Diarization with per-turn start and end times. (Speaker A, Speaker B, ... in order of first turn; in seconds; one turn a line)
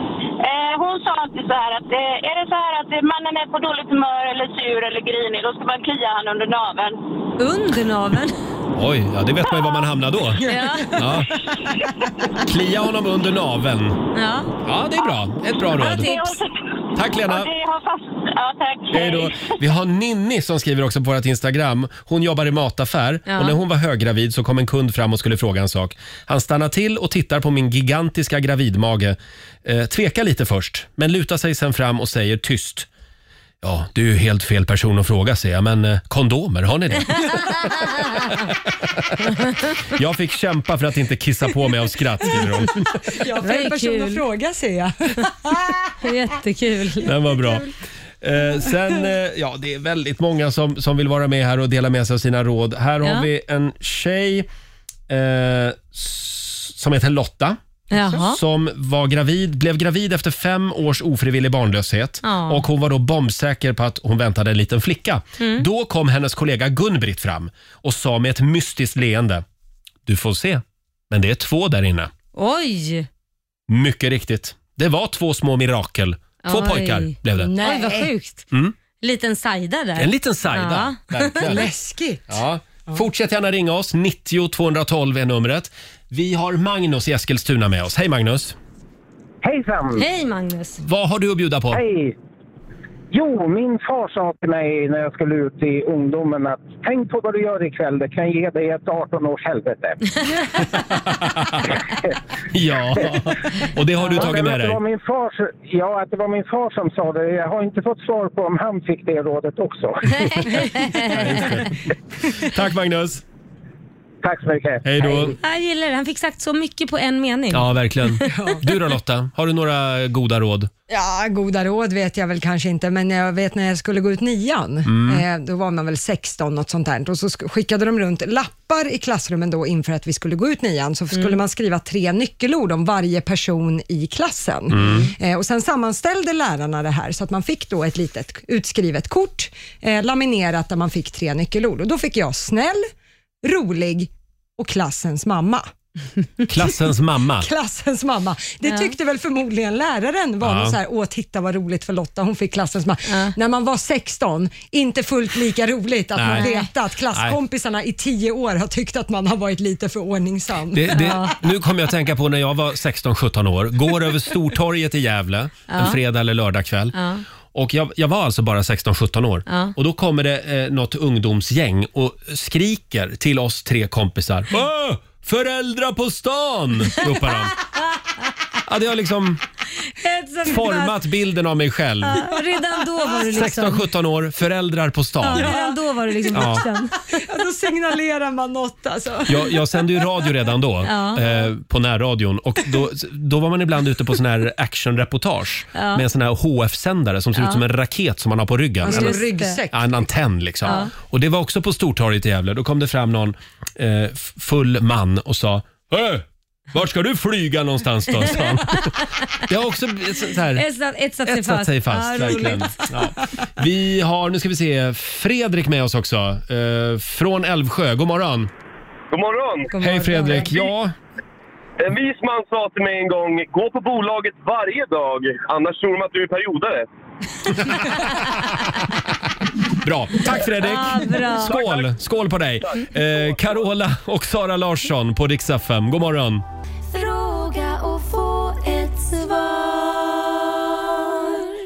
Speaker A: 0.4-7.0
Speaker B: 7.4-8.3
Speaker C: 8.7-11.3
Speaker B: 10.5-11.0
Speaker C: 12.4-14.0
Speaker B: 14.1-14.5
Speaker C: 14.6-16.1
Speaker A: 15.7-19.5
Speaker B: 15.8-16.4
Speaker C: 17.0-17.5
Speaker C: 18.9-32.9
Speaker B: 23.3-23.6
Speaker C: 33.6-39.3
Speaker B: 37.3-38.3
Speaker C: 39.9-42.9
Speaker D: 43.1-45.9
Speaker B: 43.4-44.2
Speaker B: 46.0-47.1
Speaker C: 47.0-47.7
Speaker C: 48.2-54.5
Speaker B: 53.0-53.3
Speaker C: 55.1-57.6
Speaker B: 57.9-58.4
Speaker C: 58.2-69.4
Speaker B: 62.2-62.7
Speaker B: 65.4-65.7
Speaker C: 70.1-72.1
Speaker B: 72.3-73.1
Speaker C: 73.7-77.5
Speaker B: 76.4-78.5
Speaker D: 77.4-78.1
Speaker B: 79.0-81.4
Speaker C: 80.0-81.7
Speaker D: 81.4-82.2
Speaker C: 82.3-88.6
Speaker E: 89.4-90.0
Speaker B: 90.0-90.8
Speaker C: 90.8-91.8
Speaker E: 91.8-92.1
Speaker E: 93.1-99.9
Speaker C: 100.8-101.8
Speaker C: 102.5-104.8
Speaker E: 104.3-109.9
Speaker B: 110.2-111.4
Speaker C: 111.0-111.7
Speaker C: 112.4-113.2
Speaker E: 114.2-114.8
Speaker C: 114.8-115.3
Speaker B: 115.3-118.3
Speaker C: 117.5-120.7
Speaker D: 118.3-118.6
Speaker D: 120.9-142.8
Speaker C: 124.9-125.2
Speaker C: 134.7-135.1
Speaker B: 134.8-135.1
Speaker D: 143.4-145.7
Speaker C: 146.5-147.5
Speaker D: 147.4-161.2
Speaker B: 148.7-148.9
Speaker C: 150.4-150.8
Speaker B: 153.1-153.3
Speaker C: 156.2-156.5
Speaker B: 156.3-156.7
Speaker C: 157.1-157.4
Speaker C: 160.7-167.0
Speaker B: 160.9-161.4
Speaker B: 165.7-166.0
Speaker B: 166.9-167.2
Speaker C: 167.5-177.6
Speaker B: 169.5-169.7
Speaker B: 177.0-177.4
Speaker C: 178.7-179.4
Speaker B: 180.0-180.9
Speaker C: 180.5-182.3
Speaker B: 182.1-183.8
Speaker C: 183.3-185.5
Speaker B: 185.2-187.2
Speaker D: 185.3-190.2
Speaker C: 186.3-186.6
Speaker C: 189.3-210.7
Speaker B: 190.8-191.2
Speaker B: 195.8-196.1
Speaker B: 197.4-197.6
Speaker D: 198.8-199.8
Speaker B: 198.9-199.6
Speaker B: 200.7-200.9
Speaker B: 210.5-212.7
Speaker C: 211.3-218.5
Speaker F: 219.1-219.7
Speaker D: 219.7-220.7
Speaker C: 219.8-220.9
Speaker F: 221.8-226.8
Speaker C: 229.8-236.4
Speaker B: 230.6-231.6
Speaker F: 231.6-231.8
Speaker G: 236.9-241.4